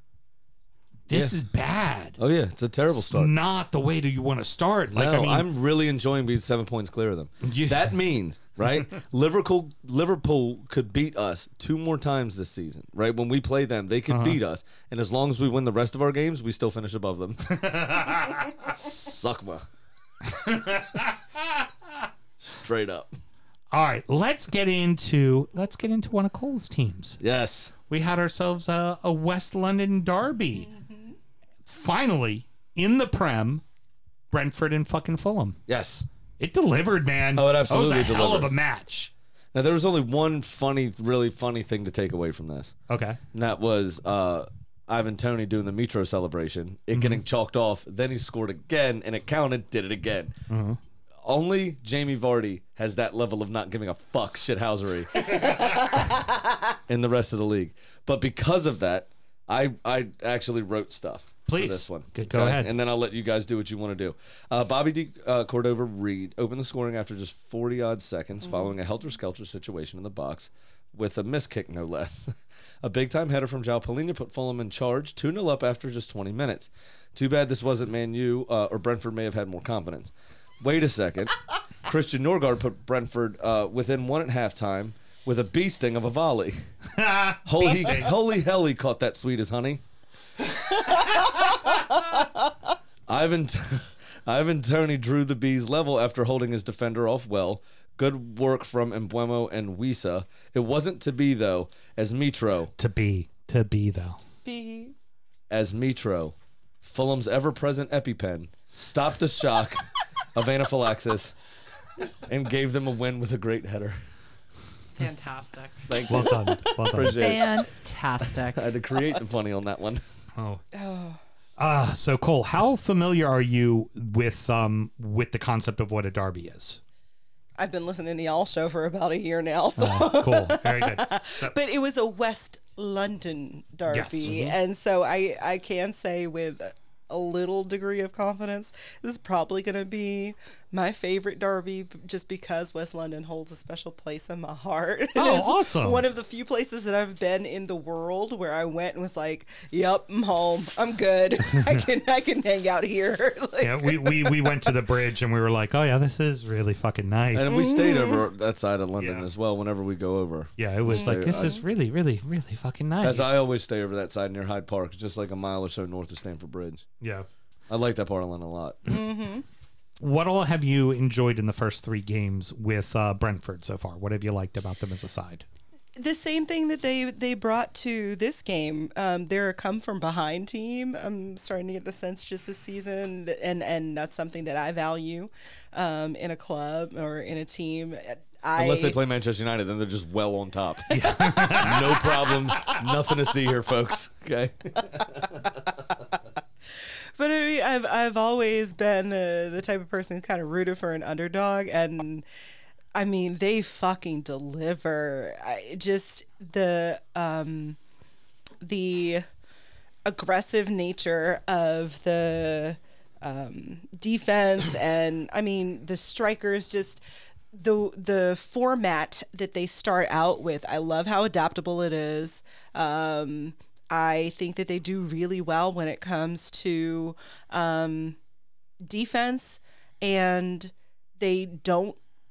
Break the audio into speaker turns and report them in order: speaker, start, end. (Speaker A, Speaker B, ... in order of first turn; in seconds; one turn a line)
Speaker A: 1.1-2.2
Speaker B: 1.1-1.4
Speaker B: 2.2-3.3
Speaker A: 2.9-5.5
Speaker B: 4.9-19.6
Speaker A: 7.4-8.0
Speaker A: 14.1-14.4
Speaker A: 17.5-18.5
Speaker A: 20.3-21.6
Speaker B: 22.4-23.1
Speaker A: 23.7-27.2
Speaker B: 27.2-27.7
Speaker A: 27.9-30.7
Speaker A: 31.6-33.6
Speaker A: 34.3-35.6
Speaker B: 35.7-36.0
Speaker A: 36.4-39.1
Speaker B: 37.3-38.5
Speaker B: 39.5-42.7
Speaker A: 42.9-43.2
Speaker B: 43.3-50.3
Speaker A: 46.9-47.2
Speaker A: 50.5-50.8
Speaker B: 51.2-56.1
Speaker B: 56.9-81.3
Speaker A: 61.5-62.7
Speaker B: 81.8-86.6
Speaker A: 86.9-88.1
Speaker B: 87.5-89.8
Speaker B: 93.1-102.7
Speaker A: 102.8-104.2
Speaker C: 104.4-104.9
Speaker B: 105.5-109.8
Speaker B: 110.3-111.3
Speaker B: 112.2-114.0
Speaker D: 115.0-115.9
Speaker B: 115.9-117.6
Speaker A: 116.0-117.2
Speaker D: 117.1-118.6
Speaker B: 118.4-120.0
Speaker A: 120.3-120.6
Speaker C: 120.7-121.2
Speaker A: 121.6-126.8
Speaker C: 127.6-154.7
Speaker A: 129.8-131.5
Speaker A: 133.9-134.6
Speaker A: 145.1-146.0
Speaker A: 151.5-151.8
Speaker A: 153.6-157.6
Speaker B: 157.3-161.6
Speaker C: 157.5-158.2
Speaker A: 159.0-159.3
Speaker A: 160.6-163.4
Speaker C: 160.9-161.6
Speaker B: 163.0-166.8
Speaker A: 167.0-167.3
Speaker B: 167.7-168.9
Speaker C: 168.9-169.4
Speaker A: 170.0-175.4
Speaker C: 176.0-189.0
Speaker B: 188.5-195.4
Speaker A: 190.9-192.8
Speaker C: 191.2-191.5
Speaker C: 197.2-202.2
Speaker C: 202.9-207.8
Speaker C: 208.6-209.2
Speaker C: 210.1-217.0
Speaker C: 217.5-228.2
Speaker C: 228.8-232.0